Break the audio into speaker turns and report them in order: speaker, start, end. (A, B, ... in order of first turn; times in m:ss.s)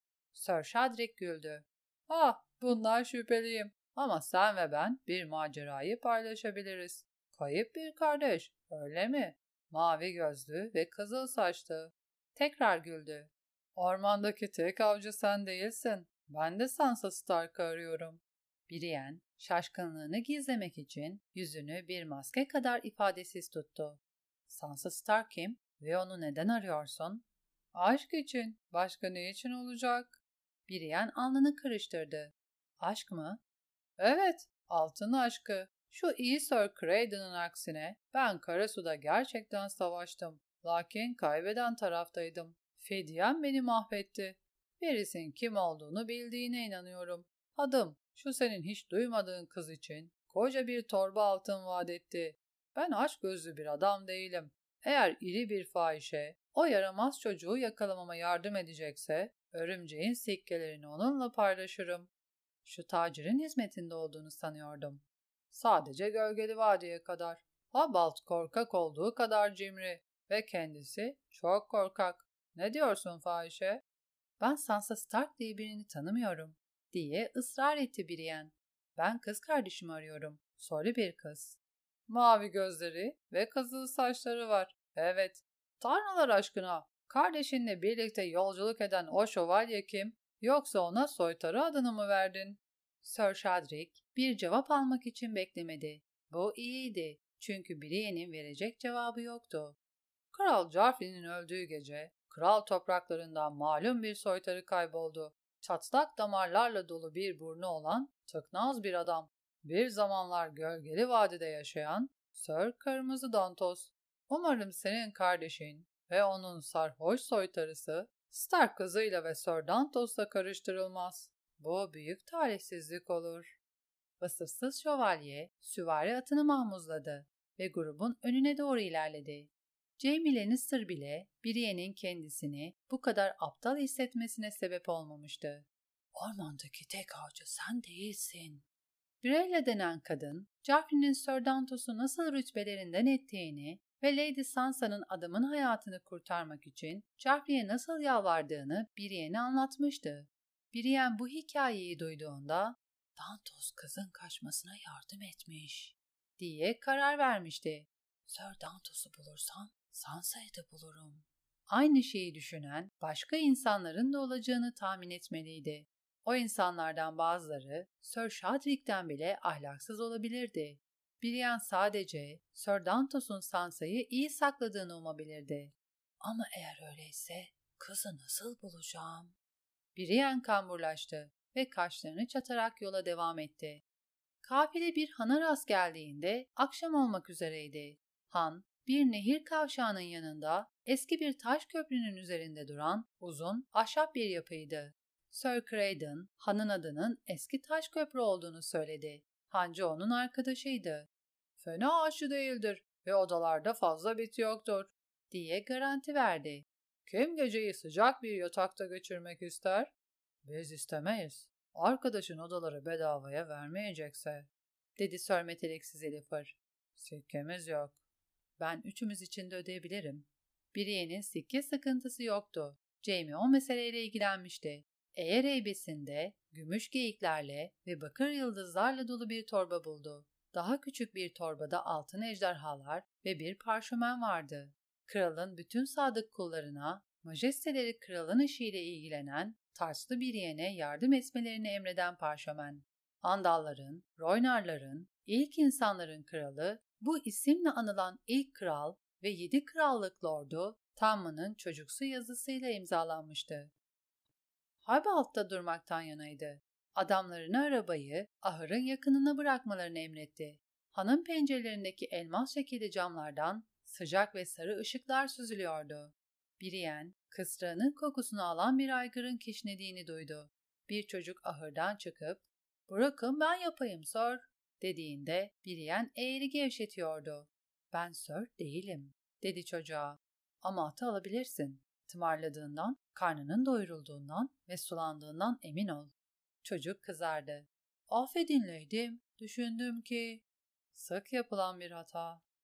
0:00.3-0:33.4 A
0:34.0-1:02.1 A
1:02.6-1:13.8 A
1:14.4-1:39.8 A
1:40.3-2:03.6 A
2:04.2-2:18.6 A
2:19.2-2:59.3 A
2:59.9-3:03.8 A
3:04.4-3:29.9 A
3:30.4-3:38.0 A
3:38.6-4:13.7 A
4:14.8-4:46.1 A
4:46.6-4:50.4 A
4:50.9-4:52.4 A